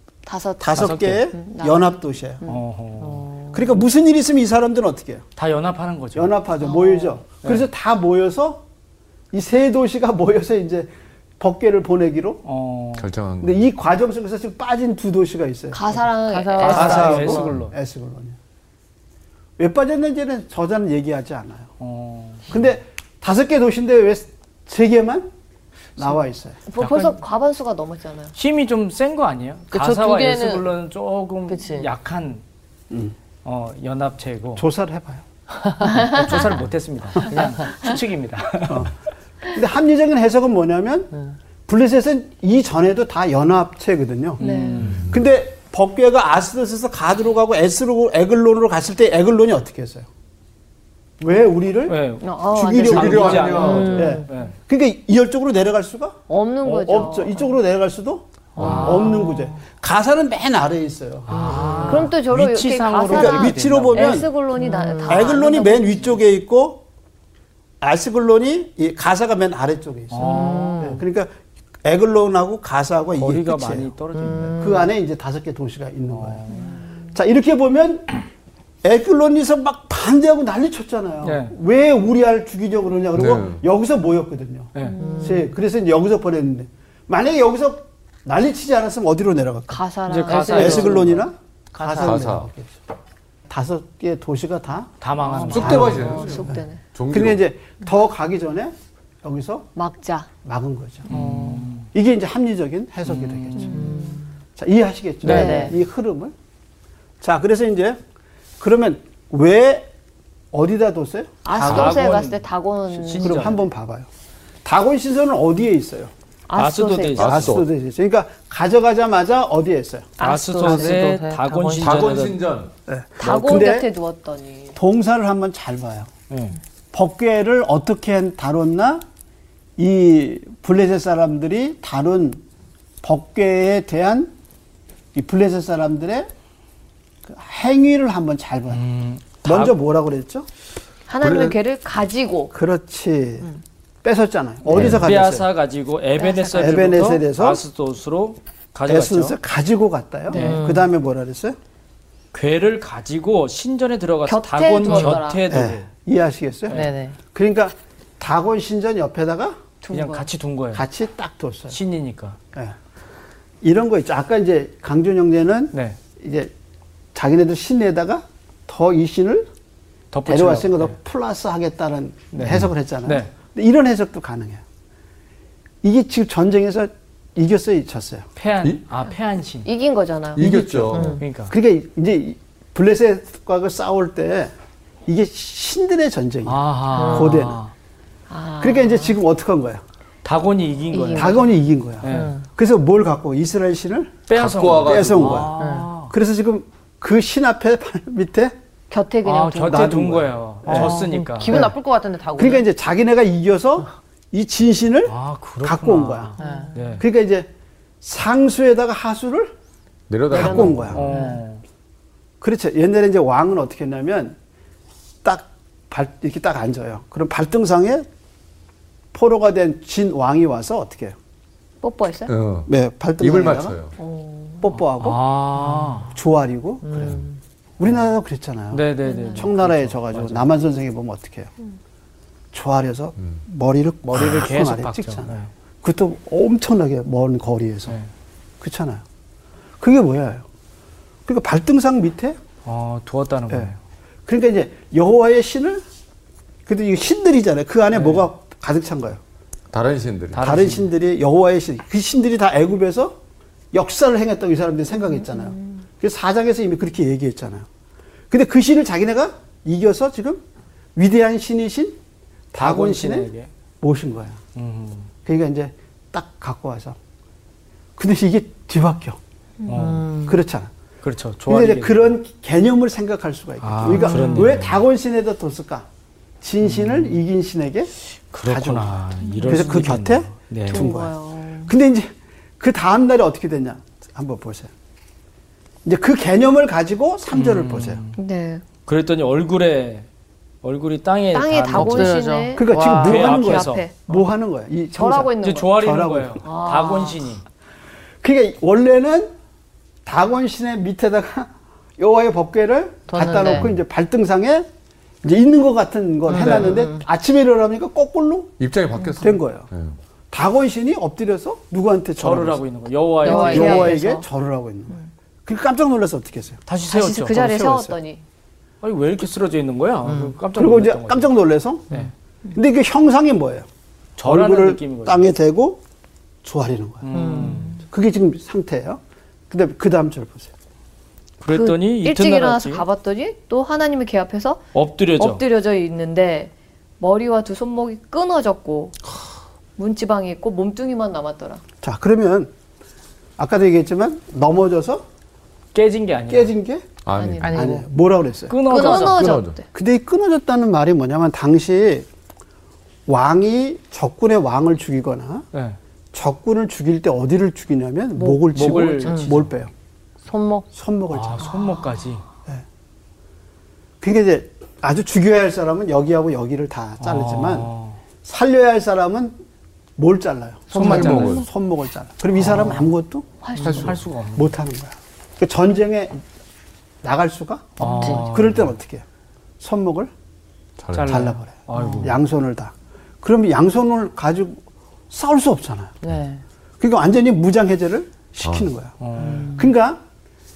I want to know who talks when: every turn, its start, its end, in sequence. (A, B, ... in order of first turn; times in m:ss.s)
0:00.3-0:02.6 A
0:00.6-0:02.4 B
0:00.8-0:01.3 C
0:02.4-0:03.3 C
0:03.2-0:03.5 D
0:03.5-0:05.2 B
0:05.4-0:06.3 C
0:06.2-0:08.6 B
0:06.6-0:07.2 A
0:09.3-0:12.4 B
0:12.4-0:13.1 C
0:13.0-0:13.6 E
0:13.4-0:16.1 B
0:15.7-0:17.4 A
0:16.3-0:17.5 D
0:16.6-0:17.7 C
0:16.7-0:18.4 B
0:19.6-0:21.7 B
0:21.8-0:22.5 C
0:22.5-0:25.3 B
0:26.0-0:26.6 B
0:26.7-0:28.3 A
0:26.8-0:27.2 C
0:28.4-0:32.4 C
0:29.7-0:30.7 D
0:31.5-0:31.9 D
0:32.9-0:33.2 B
0:33.4-0:34.7 C
0:34.6-0:35.2 B
0:35.8-0:38.9 C
0:35.8-0:36.6 A
0:37.3-0:37.9 A
0:38.7-0:38.9 B
0:39.4-0:41.1 B
0:41.7-0:44.4 B
0:44.4-0:45.1 C
0:44.4-0:44.9 A
0:45.0-0:50.1 B
0:51.2-1:02.1 B
0:51.9-0:54.6 C
0:52.2-0:54.3 A
0:52.7-0:54.1 E
0:53.7-0:54.2 D
0:56.3-0:57.5 A
0:58.6-0:59.5 C
0:58.9-0:59.4 D
1:01.3-1:04.3 C
1:01.3-1:02.1 D
1:01.8-1:06.1 A
1:03.0-1:04.3 B
1:04.6-1:05.4 D
1:05.0-1:06.8 B
1:07.8-1:13.9 B
1:10.1-1:10.8 C
1:10.2-1:11.0 A
1:10.2-1:11.0 D
1:13.2-1:14.6 C
1:14.2-1:14.8 A
1:14.3-1:14.5 D
1:14.5-1:16.5 B
1:16.1-1:16.8 C
1:17.1-1:18.2 B
1:18.8-1:29.8 B
1:21.2-1:21.6 C
1:23.2-1:23.6 E
1:24.7-1:25.0 C
1:24.8-1:25.6 A
1:25.0-1:25.4 D
1:29.7-1:31.2 A
1:30.1-1:31.2 C
1:30.3-1:31.0 D
1:30.5-1:32.8 B
1:31.8-1:32.2 C
1:32.0-1:32.5 E
1:33.5-1:34.9 B
1:35.0-1:36.1 C
1:35.5-1:37.4 E
1:35.5-1:39.7 B
1:35.5-1:36.8 A
1:39.8-1:40.3 A
1:40.4-1:41.2 B
1:41.1-1:41.9 C
1:41.9-1:43.9 B
1:43.1-1:44.0 C
1:43.6-1:44.2 A
1:43.7-1:44.1 D
1:44.6-1:46.3 B
1:45.2-1:45.7 C
1:45.3-1:45.7 D
1:45.3-1:45.8 A
1:47.2-1:48.0 B
1:48.6-1:49.9 B
1:50.5-1:52.2 B
1:51.4-1:53.6 A
1:51.6-1:52.4 C
1:53.0-1:53.6 C
1:53.2-1:54.1 B
1:54.6-1:56.1 B
1:56.5-1:57.4 A
1:56.6-1:57.6 C
1:57.2-1:57.7 E
1:57.2-2:00.2 B
2:00.2-2:01.1 A
2:00.2-2:02.4 C
2:00.6-2:02.2 D
2:01.8-2:02.7 E
2:02.9-2:03.9 B
2:03.2-2:04.8 A
2:04.8-2:06.1 B
2:06.3-2:06.6 C
2:06.9-2:09.0 B
2:09.8-2:12.4 B
2:13.0-2:14.3 B
2:15.1-2:16.3 B
2:17.2-2:18.8 B
2:18.7-2:19.8 C
2:19.4-2:20.5 B
2:21.1-2:22.5 A
2:21.2-2:21.6 E
2:22.5-2:23.5 B
2:24.0-2:25.5 B
2:24.7-2:29.4 C
2:24.8-2:25.0 E
2:26.2-2:26.8 A
2:26.5-2:27.6 B
2:28.9-2:31.6 B
2:30.3-2:30.6 A
2:30.3-2:30.6 C
2:30.3-2:30.9 D
2:32.3-2:35.9 C
2:34.3-2:35.6 A
2:34.8-2:35.1 D
2:35.5-2:39.6 B
2:36.7-2:36.9 C
2:36.7-2:37.2 D
2:39.8-2:40.3 A
2:39.9-2:40.9 C
2:40.7-2:41.8 B
2:41.7-2:42.4 C
2:43.6-2:46.5 B
2:45.7-2:46.0 C
2:47.2-2:49.5 B
2:50.1-2:51.0 C
2:50.3-2:54.6 B
2:52.3-2:53.3 C
2:55.8-2:58.3 B
2:58.4-2:59.7 C
2:59.6-3:00.4 A
3:00.4-3:01.2 E
3:00.4-3:04.5 B
3:01.1-3:01.5 C
3:05.1-3:07.6 B
3:06.4-3:07.7 C
3:06.9-3:07.4 D
3:08.3-3:09.2 A
3:08.6-3:09.8 B
3:10.2-3:11.5 C
3:10.9-3:11.5 A
3:11.1-3:15.6 B
3:12.0-3:12.3 C
3:12.1-3:12.5 D
3:14.3-3:16.1 C
3:14.3-3:15.5 E
3:15.6-3:15.9 D
3:16.1-3:18.6 B
3:18.9-3:19.9 A
3:19.2-3:21.6 C
3:19.6-3:21.8 B
3:20.7-3:22.7 D
3:22.4-3:26.3 B
3:25.1-3:27.0 C
3:26.4-3:26.7 D
3:26.4-3:26.8 A
3:27.0-3:27.5 B
3:28.0-3:29.5 B
3:30.1-3:31.1 E
3:30.3-3:31.0 B
3:30.3-3:31.4 A
3:30.9-3:31.6 C
3:32.4-3:34.4 B
3:35.2-3:38.1 B
3:39.1-3:41.2 B
3:41.8-3:42.3 A
3:42.3-3:42.7 E
3:42.7-3:43.8 B
3:43.2-3:44.0 E
3:44.0-3:44.7 A
3:44.6-3:45.2 B
3:45.0-3:46.1 C
3:46.1-3:47.2 B
3:46.8-3:47.3 D
3:47.8-3:51.5 B
3:48.7-3:50.5 C
3:49.0-3:49.5 A
3:52.5-3:58.0 B
3:54.1-3:55.5 C
3:58.6-3:59.0 B
3:59.8-4:00.5 B
4:01.3-4:02.4 B
4:02.6-4:03.8 C
4:04.3-4:05.8 B
4:06.7-4:09.2 B
4:07.9-4:08.3 C
4:09.7-4:10.5 E
4:10.3-4:10.9 C
4:10.4-4:13.2 B
4:13.7-4:17.7 B
4:18.3-4:20.4 B
4:21.0-4:22.0 B
4:22.5-4:24.4 B
4:22.6-4:23.5 C
4:24.6-4:25.1 C
4:25.2-4:27.0 B
4:28.0-4:29.2 B
4:29.7-4:30.1 C
4:29.7-4:30.4 D
4:30.2-4:30.7 B
4:31.0-4:32.0 C
4:31.5-4:35.9 B
4:33.6-4:34.8 C
4:33.9-4:34.4 D
4:36.4-4:44.7 B
4:36.6-4:37.2 C
4:38.3-4:40.9 C
4:40.7-4:41.7 A
4:45.8-4:48.0 B
4:47.3-4:48.2 C
4:48.2-4:48.6 A
4:48.9-4:50.1 C
4:50.6-4:52.2 C
4:51.3-4:54.1 A
4:51.7-4:53.2 D
4:52.6-4:56.4 B
4:53.0-4:53.9 C
4:55.0-4:55.8 A
4:55.4-4:57.4 C
4:56.4-4:57.2 A
4:58.2-4:59.3 B
5:00.0-5:04.7 B
5:03.1-5:03.7 D
5:05.2-5:08.6 B
5:06.3-5:07.0 D
5:06.3-5:06.8 C
5:08.6-5:10.0 E
5:09.2-5:09.7 B
5:10.3-5:12.6 B
5:12.2-5:14.0 C
5:13.2-5:14.1 D
5:13.2-5:14.2 A
5:13.2-5:16.6 B
5:16.7-5:17.4 C
5:16.9-5:18.2 A
5:17.2-5:18.0 B
5:18.8-5:21.3 C
5:20.1-5:20.3 D
5:20.6-5:23.7 B
5:24.2-5:25.3 C
5:24.2-5:25.8 B
5:26.4-5:27.2 B
5:27.0-5:27.8 C
5:27.1-5:27.7 D
5:27.2-5:27.8 A
5:27.8-5:30.5 B
5:31.4-5:32.9 C
5:31.5-5:34.7 A
5:34.7-5:35.4 C
5:35.2-5:39.0 A
5:39.8-5:41.6 A
5:41.8-5:42.5 B
5:43.4-5:45.1 B
5:45.7-5:46.5 C
5:46.3-5:46.9 B
5:47.0-5:47.6 E
5:47.1-5:47.8 A
5:47.4-5:47.8 D
5:47.5-5:48.7 B
5:48.5-5:49.4 C
5:48.6-5:49.6 A
5:48.7-5:49.2 D
5:49.2-5:49.6 E
5:49.3-5:52.1 B
5:53.1-5:55.5 B
5:56.1-5:59.7 B
5:58.2-5:59.2 A
5:58.5-5:59.5 C
6:00.3-6:00.7 D
6:00.7-6:01.5 B
6:01.1-6:02.2 C
6:04.0-6:07.7 B
6:07.0-6:08.0 C
6:08.2-6:09.4 B
6:10.0-6:16.2 B
6:10.7-6:11.2 D
6:10.7-6:11.4 C
6:10.8-6:11.4 E
6:12.4-6:12.9 C
6:13.4-6:13.9 A
6:13.6-6:14.6 C
6:17.0-6:19.0 B
6:17.8-6:18.7 C
6:17.8-6:18.2 D
6:19.6-6:20.1 B
6:20.8-6:21.2 E
6:20.9-6:22.2 C
6:21.1-6:26.0 B
6:26.0-6:26.4 D
6:26.8-6:30.0 B
6:28.4-6:28.7 E
6:29.0-6:29.5 C
6:29.2-6:29.7 D